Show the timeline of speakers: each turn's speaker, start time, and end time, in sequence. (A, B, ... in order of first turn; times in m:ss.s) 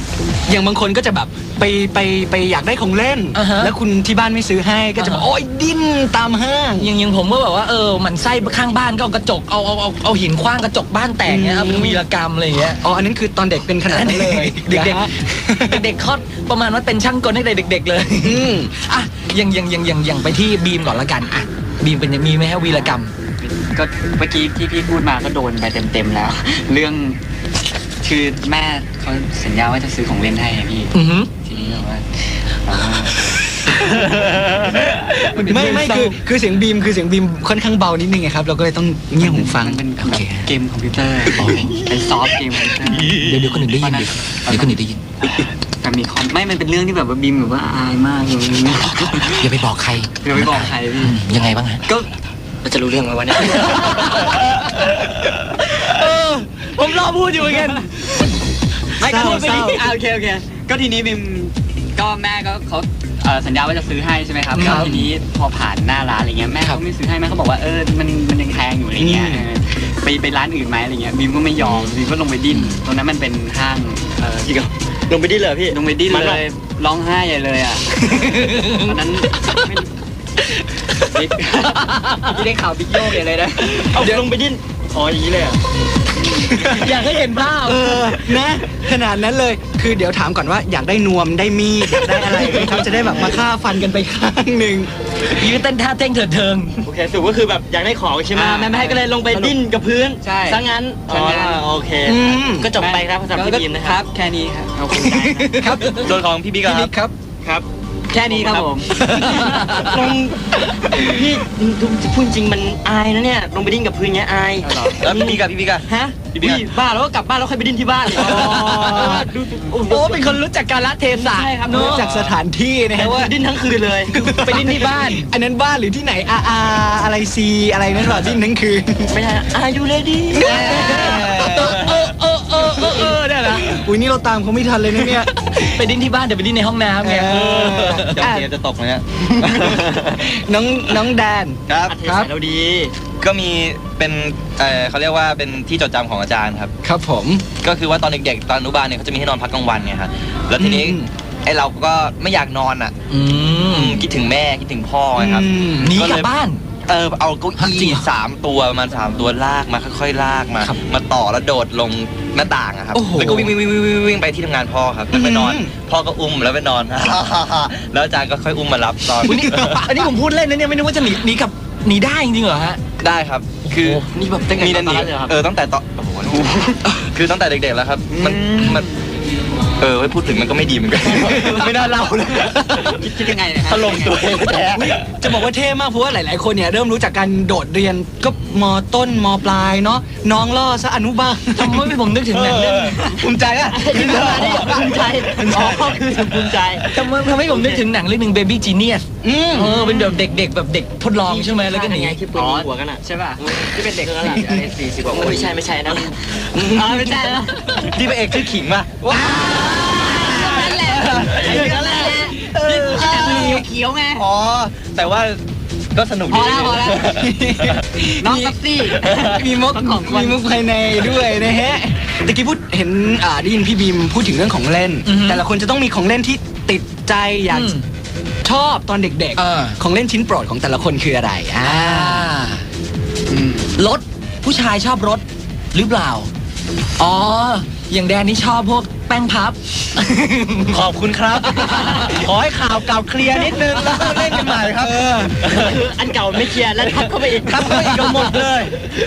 0:00.5-0:06.9 A
0:03.3-0:03.7 B
0:05.0-0:05.2 B
0:06.8-0:12.8 B
0:11.2-0:12.0 A
0:12.8-0:15.8 A
0:13.9-0:15.1 B
0:15.6-0:23.1 B
0:18.2-0:18.8 A
0:22.7-0:27.2 C
0:28.0-0:32.0 C
0:30.9-0:31.3 B
0:32.6-0:33.3 C
0:34.1-0:34.5 D
0:35.3-0:36.1 C
0:35.3-0:39.8 A
0:35.5-0:36.1 B
0:39.2-0:44.8 C
0:40.1-0:40.4 B
0:41.3-0:41.8 B
0:42.9-0:43.8 D
0:43.2-0:45.0 B
0:45.8-0:49.5 C
0:49.1-0:51.8 B
0:50.2-0:51.2 C
0:52.6-0:54.4 E
0:55.6-0:57.9 B
0:59.0-1:14.5 C
0:59.0-0:59.8 A
0:59.2-0:59.6 B
1:04.5-1:05.0 B
1:04.6-1:05.1 A
1:09.0-1:09.4 A
1:14.4-1:16.4 E
1:15.7-1:19.8 C
1:18.0-1:18.9 B
1:21.0-1:23.9 C
1:21.8-1:22.4 B
1:23.6-1:25.6 E
1:24.0-1:24.2 A
1:26.2-1:26.6 C
1:26.5-1:26.9 A
1:26.7-1:28.3 B
1:27.6-1:34.9 A
1:32.5-1:33.3 E
1:35.3-1:36.8 B
1:36.8-1:44.0 E
1:38.3-1:39.6 C
1:40.2-1:41.6 C
1:41.1-1:41.6 D
1:42.0-1:42.7 A
1:42.8-1:45.4 C
1:44.8-1:45.6 E
1:45.2-1:46.0 B
1:45.5-1:46.1 A
1:46.0-1:46.9 D
1:46.6-1:47.1 A
1:48.1-1:48.9 C
1:48.2-2:00.4 E
1:49.0-1:50.0 B
1:54.6-1:55.0 C
1:55.0-1:55.8 D
1:56.4-1:56.6 D
1:58.2-1:59.2 A
1:58.2-1:59.2 B
1:59.8-2:02.0 B
2:01.1-2:02.1 E
2:01.6-2:03.3 A
2:01.9-2:02.4 D
2:02.9-2:04.8 E
2:04.1-2:09.1 A
2:04.3-2:05.3 B
2:09.1-2:11.2 E
2:10.4-2:11.2 A
2:10.4-2:13.9 B
2:10.9-2:12.1 D
2:13.4-2:15.3 A
2:15.1-2:18.3 B
2:17.0-2:18.5 A
2:17.2-2:20.1 D
2:19.4-2:22.3 A
2:21.7-2:21.9 D
2:21.9-2:23.0 E
2:23.2-2:26.7 D
2:26.8-2:27.5 A
2:27.6-2:32.9 D
2:30.6-2:31.1 A
2:33.1-2:34.0 B
2:33.6-2:36.3 D
2:35.2-2:36.0 A
2:35.8-2:36.6 B
2:36.8-2:50.0 D
2:37.6-2:38.0 B
2:42.9-2:43.5 A
2:45.1-2:45.7 A
2:49.2-2:52.8 B
2:49.3-2:50.1 A
2:53.0-2:54.0 D
2:53.7-2:55.4 E
2:54.6-2:58.9 D
2:56.4-2:56.7 E
2:58.1-2:59.0 C
2:59.8-3:03.1 D
3:01.4-3:01.7 E
3:02.7-3:04.4 C
3:03.6-3:05.3 D
3:04.7-3:12.0 A
3:11.6-3:13.0 B
3:12.3-3:13.0 D
3:13.1-3:15.0 A
3:13.7-3:17.8 E
3:14.2-3:14.7 D
3:15.4-3:15.8 D
3:16.9-3:22.2 B
3:19.2-3:19.8 A
3:19.7-3:20.2 E
3:21.2-3:27.4 E
3:22.3-3:28.0 C
3:27.9-3:29.1 D
3:29.1-3:34.3 C
3:29.2-3:29.4 A
3:30.2-3:30.6 B
3:30.7-3:32.1 D
3:31.4-3:32.3 E
3:32.5-3:33.0 B
3:32.7-3:35.4 D
3:35.9-3:37.8 D
3:36.3-3:37.2 C
3:37.1-3:47.7 A
3:38.2-3:40.4 C
3:45.0-3:45.4 B
3:47.5-3:47.8 B
3:48.4-3:52.3 A
3:49.4-3:49.8 B
3:51.6-3:52.6 B
3:53.3-3:53.7 C
3:53.8-3:55.2 B
3:55.7-3:56.3 B
3:57.0-4:00.8 B
4:00.7-4:05.8 D
4:01.5-4:02.3 B
4:03.8-4:04.5 B
4:04.8-4:05.3 A
4:05.4-4:08.1 E
4:07.5-4:08.7 D
4:07.7-4:08.4 B